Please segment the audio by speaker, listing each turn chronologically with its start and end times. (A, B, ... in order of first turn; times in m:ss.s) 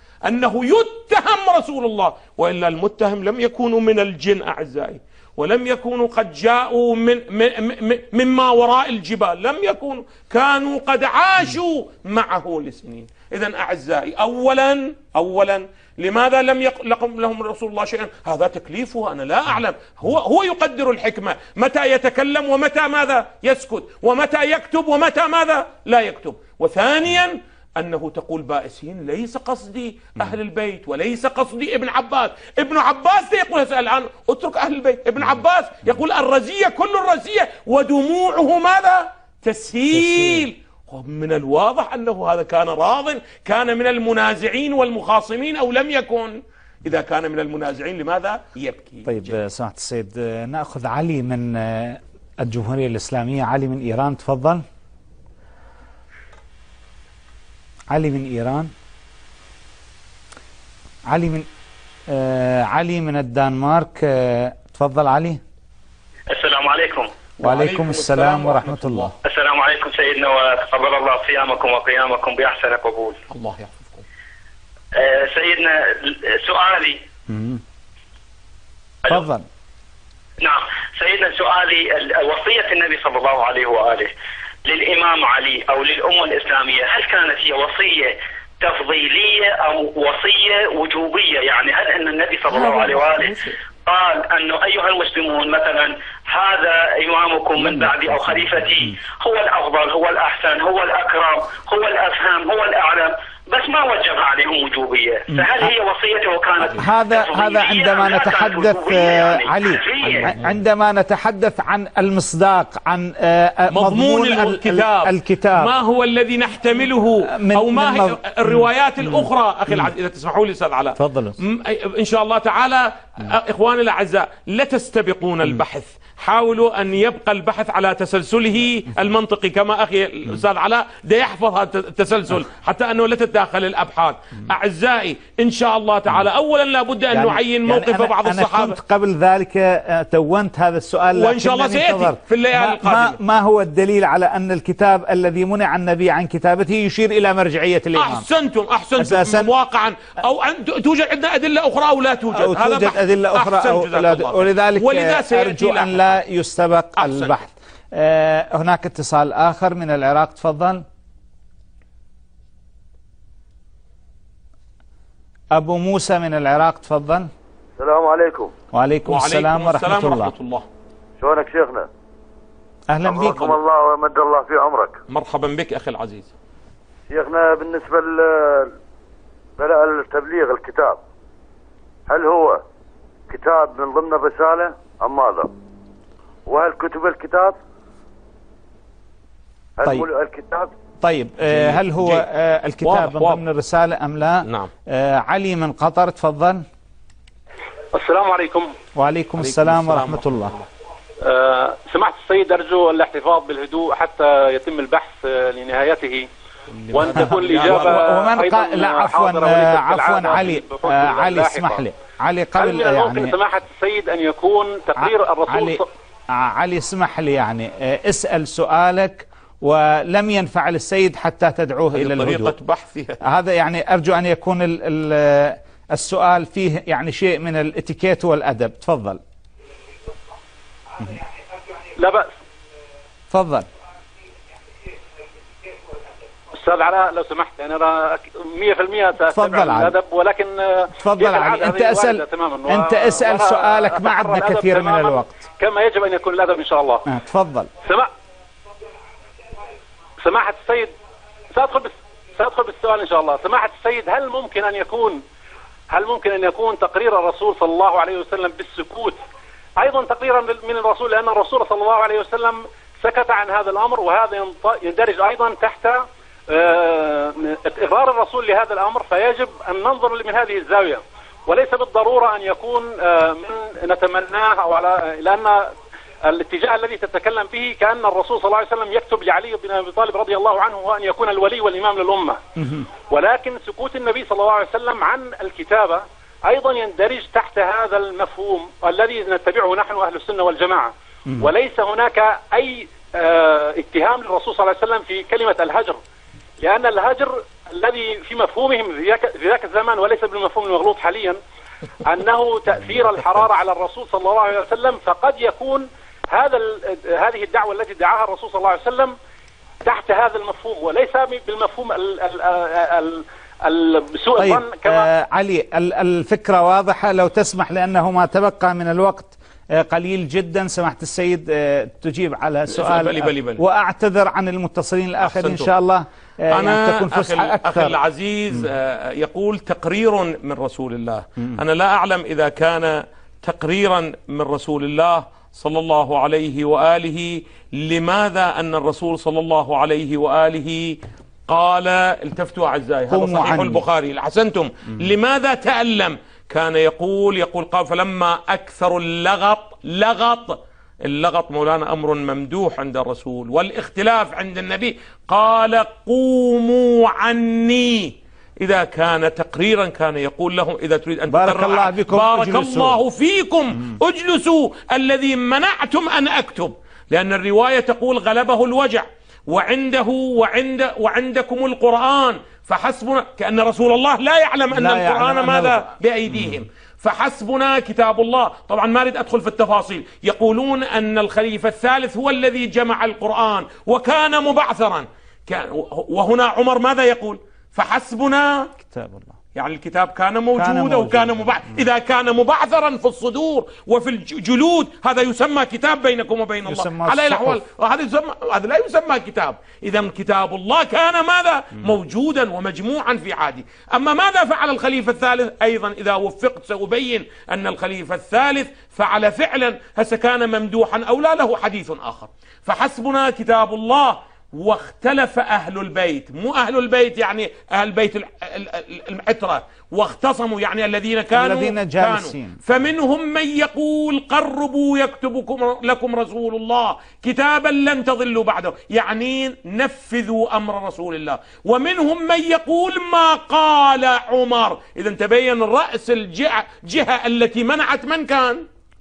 0:00.2-0:49.4 A
0:39.9-0:40.4 B
0:49.0-0:54.6 B
0:57.9-0:58.7 B
1:01.1-1:01.5 B
1:02.1-1:05.4 B
1:06.3-1:07.1 C
1:07.4-1:09.2 A
1:07.4-1:09.2 B
1:09.2-1:13.2 C
1:13.3-1:14.0 A
1:14.9-1:17.0 C
1:17.3-1:17.6 B
1:19.1-1:19.4 B
1:20.4-1:24.1 C
1:24.6-1:50.3 C
1:32.5-1:33.6 A
1:37.6-1:37.9 B
1:45.3-1:45.7 B
1:46.8-1:55.7 B
1:50.0-1:50.4 A
1:53.7-2:18.8 A
1:57.4-1:58.2 B
2:01.0-2:01.4 B
2:17.1-2:28.2 B
2:21.1-2:23.2 A
2:27.9-2:36.2 A
2:29.0-2:29.5 B
2:32.3-2:40.8 B
2:37.0-2:37.4 A
2:45.5-2:47.3 B
2:47.8-2:48.5 D
2:48.7-2:50.3 B
2:49.0-2:50.7 A
2:51.2-2:51.9 D
2:52.9-2:53.5 B
2:53.0-2:53.6 A
2:53.1-2:55.0 D
2:55.1-2:56.3 A
2:57.1-2:58.8 D
2:59.6-3:01.0 D
3:02.1-3:02.6 D
3:03.3-3:05.5 D
3:06.5-3:07.6 D
3:09.8-3:10.7 D
3:11.0-3:16.6 B
3:11.5-3:12.2 A
3:12.8-3:13.4 A
3:14.4-3:14.7 A
3:17.9-3:18.8 E
3:19.0-3:20.5 B
3:19.4-3:20.7 A
3:21.2-3:26.3 E
3:26.9-3:28.0 A
3:26.9-3:31.8 E
3:27.0-3:33.4 B
3:32.6-3:35.9 E
3:35.0-3:42.5 B
3:41.9-3:43.2 A
3:43.2-3:49.2 B
3:52.0-3:52.3 E
3:53.3-3:53.7 B
3:56.6-4:07.0 E
3:59.3-3:59.9 B
4:01.0-4:05.4 B
4:07.1-4:07.7 B
4:07.8-4:08.1 E
4:10.2-4:10.9 E
4:11.5-4:15.2 E
4:15.9-4:19.2 E
4:19.8-4:42.4 E
4:42.6-4:42.8 B
4:43.1-4:56.0 E
4:56.6-5:01.4 E
5:02.0-5:09.2 E
5:09.8-5:15.1 E
5:14.4-5:28.0 B
5:22.7-5:23.6 A
5:25.2-5:25.7 A
5:26.5-6:28.7 A
5:43.1-5:43.8 B
6:01.3-6:03.0 B
6:14.7-6:15.9 B
6:28.8-6:29.4 B
6:29.5-7:18.6 A
6:30.6-6:31.6 B
6:36.6-6:37.6 B
7:01.3-7:02.6 B